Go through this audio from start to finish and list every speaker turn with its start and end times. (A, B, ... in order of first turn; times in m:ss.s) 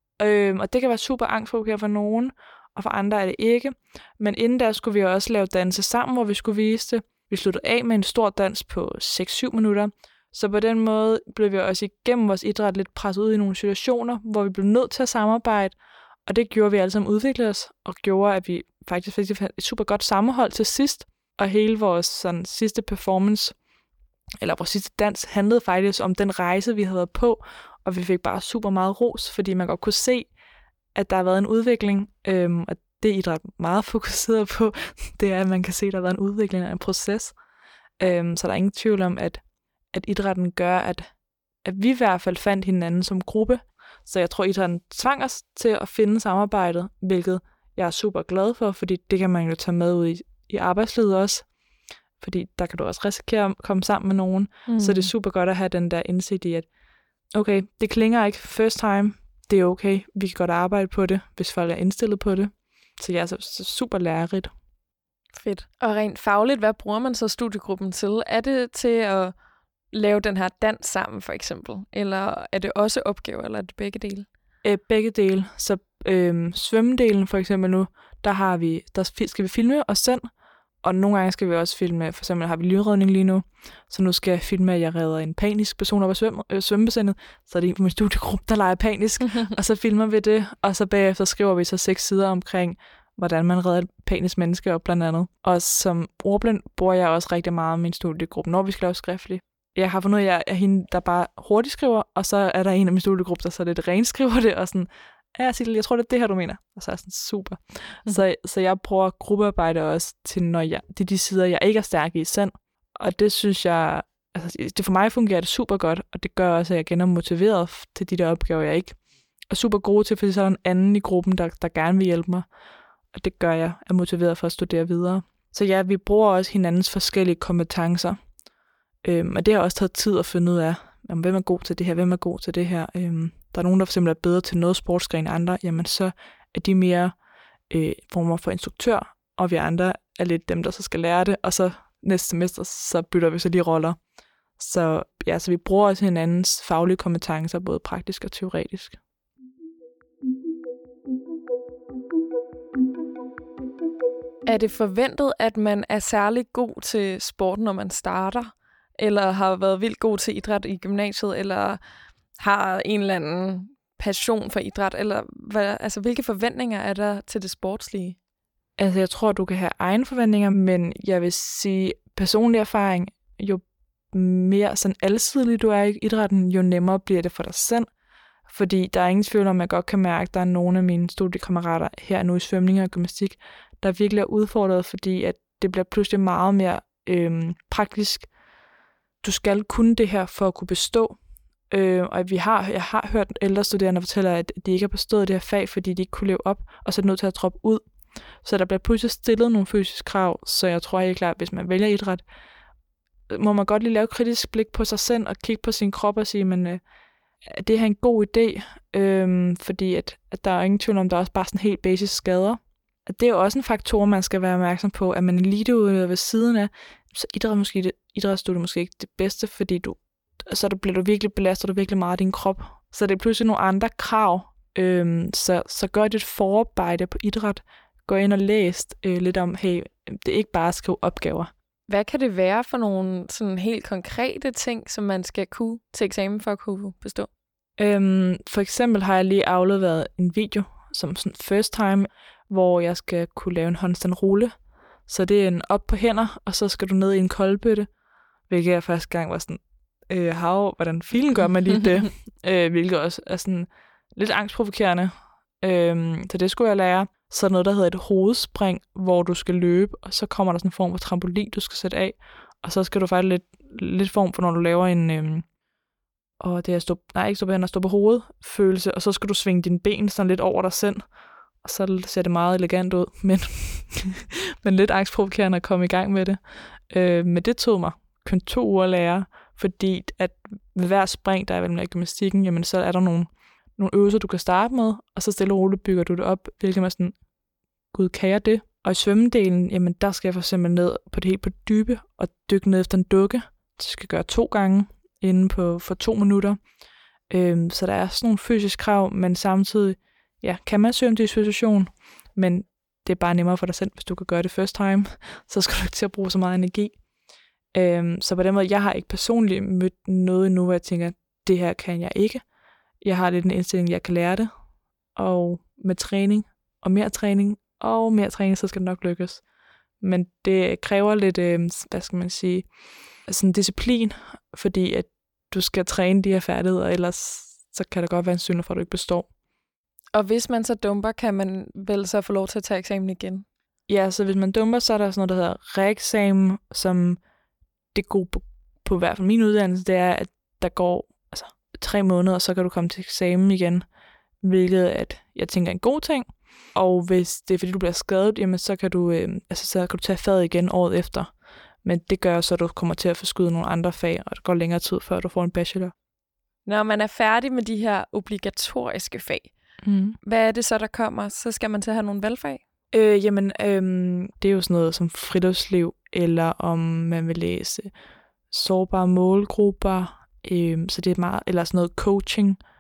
0:00.2-0:23.5 A
0:24.4-0:30.3 A
0:31.0-0:37.4 A
0:38.0-0:39.4 A
0:39.9-0:41.1 A
0:41.6-0:51.5 A
0:52.2-0:56.7 A
0:54.7-0:55.1 B
0:57.3-1:04.5 A
1:05.4-1:09.3 B
1:09.9-1:14.3 B
1:14.6-1:20.3 A
1:20.8-1:59.0 A
1:59.5-2:02.5 A
2:03.1-2:08.2 A
2:09.0-2:17.1 A
2:17.7-2:24.0 A
2:24.6-2:29.0 A
2:34.5-2:41.8 B
2:42.4-2:48.2 B
2:48.8-2:57.9 A
2:58.5-3:08.3 A
3:09.2-3:11.2 A
3:11.7-3:17.8 A
3:18.4-3:22.2 A
3:23.3-3:26.8 A
3:27.5-3:51.5 A
3:51.9-3:57.3 B
3:57.8-4:04.5 A
4:05.1-4:07.9 A
4:08.5-4:25.4 A
4:26.4-4:31.0 A
4:31.6-4:47.2 A
4:47.9-4:56.6 A
4:57.3-5:07.0 A
5:07.7-5:12.4 A
5:13.0-5:14.5 A
5:15.2-5:19.4 A
5:20.0-5:22.7 A
5:23.3-5:29.3 A
5:30.1-5:33.5 B
5:33.9-5:37.2 A
5:37.9-5:43.8 A
5:44.4-5:51.3 A
5:51.8-5:55.9 A
5:56.7-5:59.5 B
5:59.8-6:00.2 A
6:00.2-6:02.6 B
6:02.9-6:07.9 A
6:08.5-6:12.6 A